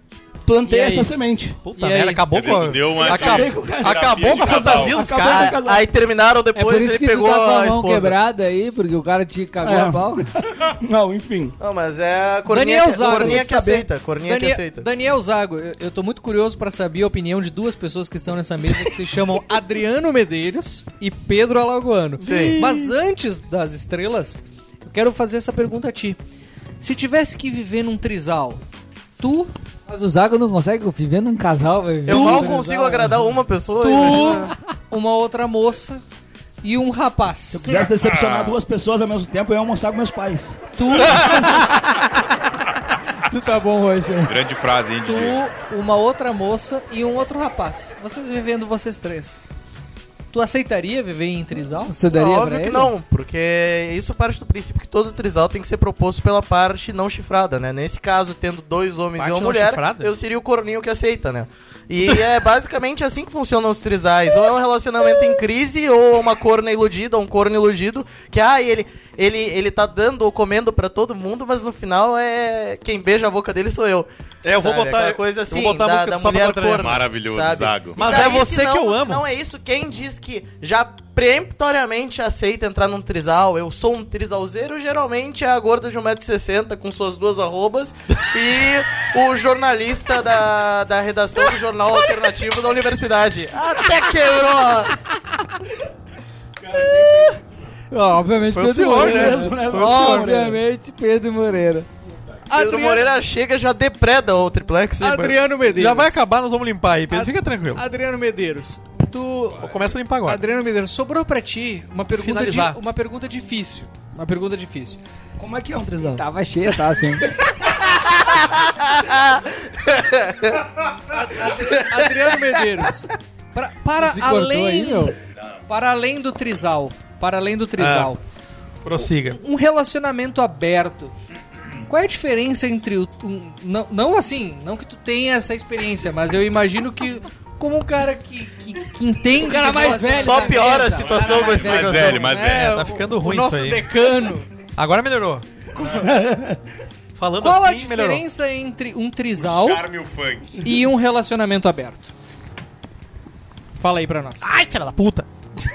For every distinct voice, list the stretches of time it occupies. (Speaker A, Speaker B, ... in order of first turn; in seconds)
Speaker A: 0.5-1.6, 2.9-5.8, 9.6-11.6, 13.0-13.9, 37.5-40.6, 98.9-100.6, 115.4-116.2, 145.9-146.6
Speaker B: 0.7-1.1, 1.8-2.2, 12.5-13.5, 14.2-26.2, 26.8-28.6, 29.2-29.5, 32.1-32.9, 33.8-36.0, 36.6-37.6, 40.8-41.6, 45.0-49.4, 50.3-52.0, 102.5-103.1, 105.0-106.2, 107.1-115.0, 121.1-125.1, 125.7-128.2, 129.3-131.1, 131.9-144.5, 147.4-149.8, 150.6-152.1, 153.8-154.5
Speaker C: 1.6-5.6, 22.2-22.9, 59.2-60.1, 74.4-76.9, 78.0-79.2, 98.5-100.3, 105.1-107.8, 109.6-110.4, 112.1-112.8, 127.8-128.1, 128.8-129.4, 142.5-143.9, 144.8-145.4, 147.2-148.2, 154.5-155.3
Speaker D: 2.3-5.0, 38.1-38.5, 44.2-45.4, 76.8-78.1, 141.0-142.8, 149.4-150.6
Speaker E: 5.2-8.2, 11.6-14.8, 22.2-22.6, 32.0-34.5, 52.1-95.0, 102.5-105.3, 119.9-120.5, 139.8-142.4
Speaker F: 6.5-10.2, 29.9-33.0, 43.3-44.3, 51.8-52.9, 97.9-101.9, 116.2-117.3, 124.0-125.1, 139.3-141.5